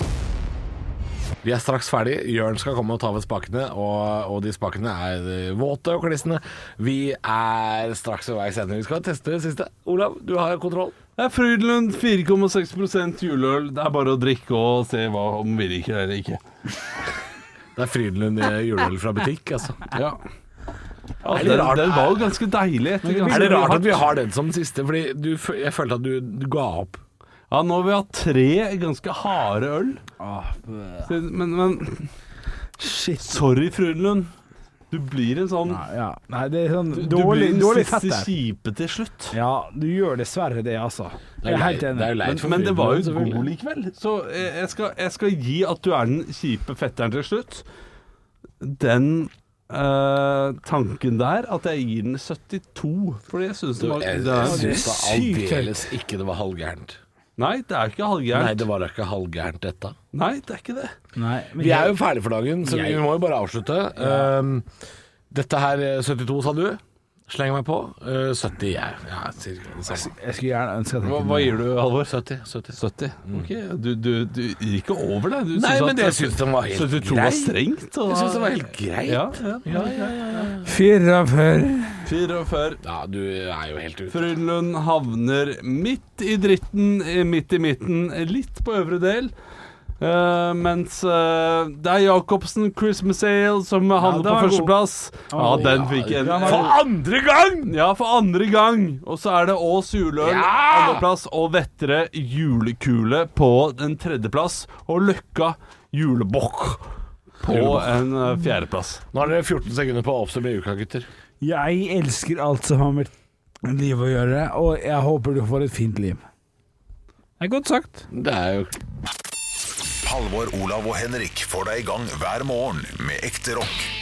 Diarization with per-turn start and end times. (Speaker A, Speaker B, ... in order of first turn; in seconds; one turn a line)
Speaker A: 1.4-11.0
Speaker B: 11.2-16.4
Speaker A: 17.8-19.9
Speaker B: 19.9-20.2
Speaker B: 21.2-24.0
Speaker A: 21.2-22.4
Speaker C: 23.0-23.9
Speaker A: 23.3-27.0
Speaker B: 27.5-30.0
Speaker C: 30.2-31.1
Speaker B: 31.1-32.1
Speaker C: 32.8-33.4
Speaker B: 33.2-34.3
Speaker B: 34.9-35.8
Speaker C: 35.7-38.3
Speaker B: 36.9-39.4
Speaker C: 39.3-42.1
Speaker A: 41.4-43.5
Speaker B: 42.2-47.6
Speaker B: 48.6-54.8
Speaker A: 53.8-57.0
Speaker C: 54.4-55.9
Speaker B: 57.4-58.6
Speaker A: 58.3-60.0
Speaker B: 60.1-60.9
Speaker C: 61.2-62.0
Speaker A: 61.6-64.7
Speaker C: 62.6-63.0
Speaker C: 64.0-64.3
Speaker A: 65.3-70.1
Speaker C: 69.9-71.5
Speaker B: 71.0-72.2
Speaker A: 72.0-73.5
Speaker B: 72.8-80.5
Speaker A: 75.5-80.7
Speaker C: 80.6-82.0
Speaker B: 82.0-82.8
Speaker A: 82.8-84.3
Speaker B: 84.1-89.3
Speaker B: 90.0-96.8
Speaker C: 94.0-94.8
Speaker C: 95.3-96.7
Speaker A: 95.5-97.7
Speaker B: 97.7-106.8
Speaker A: 100.2-101.1
Speaker B: 107.4-109.0
Speaker A: 107.4-108.1
Speaker A: 109.1-111.1
Speaker C: 111.4-113.1
Speaker C: 113.6-116.2
Speaker C: 117.4-118.1
Speaker A: 118.1-118.8
Speaker D: 120.0-123.9